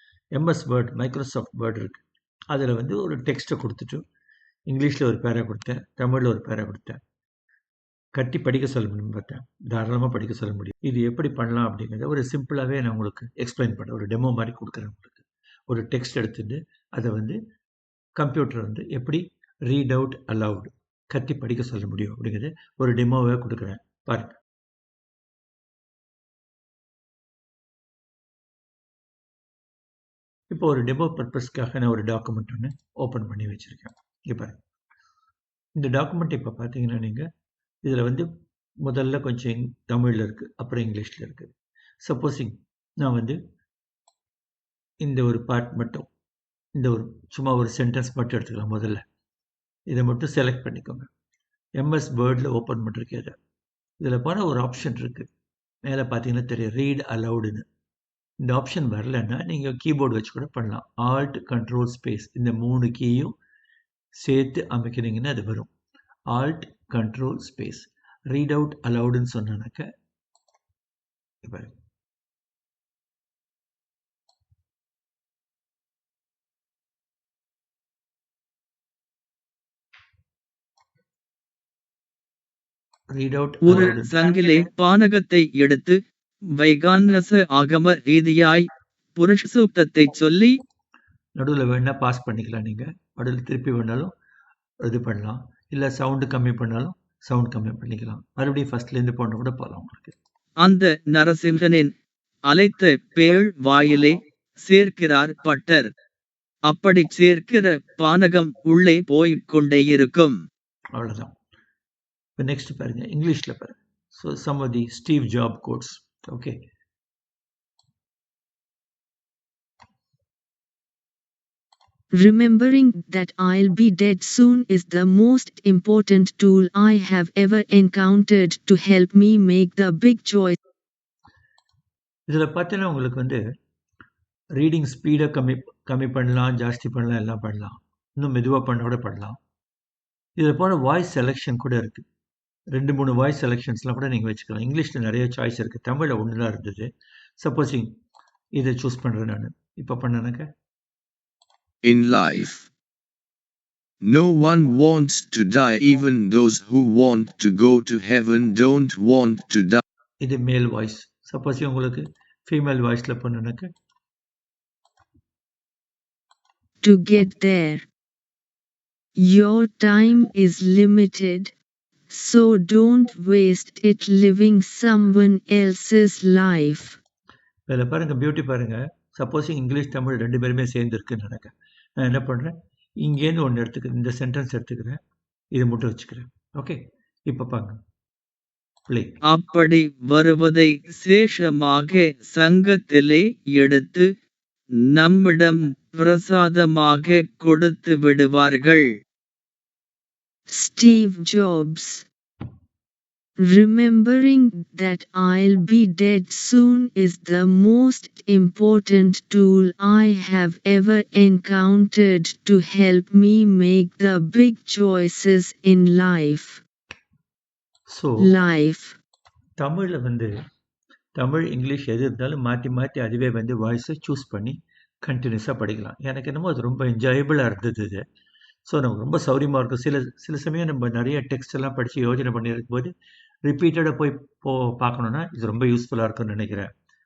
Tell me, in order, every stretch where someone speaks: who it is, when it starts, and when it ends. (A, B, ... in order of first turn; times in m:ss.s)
0:00.4-0:04.0 A
0:04.7-0:07.0 A
0:08.2-0:17.4 A
0:18.2-0:24.4 A
0:30.5-0:34.6 A
0:35.8-0:37.3 A
0:37.8-0:38.3 A
0:38.8-0:43.4 A
0:45.0-0:46.1 A
0:46.8-0:49.0 A
0:49.9-0:51.1 A
0:51.8-0:53.4 A
0:54.0-0:55.3 A
0:55.9-0:57.6 A
0:58.4-1:03.4 A
1:04.2-1:05.7 A
1:06.3-1:09.9 A
1:11.4-1:11.7 A
1:23.1-1:24.2 A
1:23.6-1:26.0 B
1:26.6-1:30.6 B
1:31.4-1:34.1 A
1:34.8-1:40.2 A
1:40.6-1:41.9 B
1:42.5-1:45.9 B
1:46.7-1:50.4 B
1:50.9-1:51.3 A
1:52.4-1:56.6 A
2:02.1-2:10.6 C
2:12.3-2:13.4 A
2:14.6-2:19.4 A
2:20.4-2:22.0 A
2:22.7-2:26.9 A
2:27.4-2:27.9 A
2:28.6-2:30.5 A
2:31.8-2:32.7 D
2:34.0-2:39.8 D
2:40.2-2:43.7 A
2:46.8-2:47.8 C
2:49.2-2:51.5 C
2:52.1-2:57.0 C
2:57.7-3:05.0 A
3:05.5-3:07.8 A
3:08.9-3:09.2 A
3:09.3-3:14.1 B
3:14.9-3:18.9 B
3:20.5-3:22.0 C
3:23.4-3:36.6 C
3:37.9-3:38.3 A
3:38.2-3:39.0 C
3:39.6-3:40.3 A
3:41.2-3:48.1 A
3:48.7-3:52.9 A
3:53.4-3:56.7 A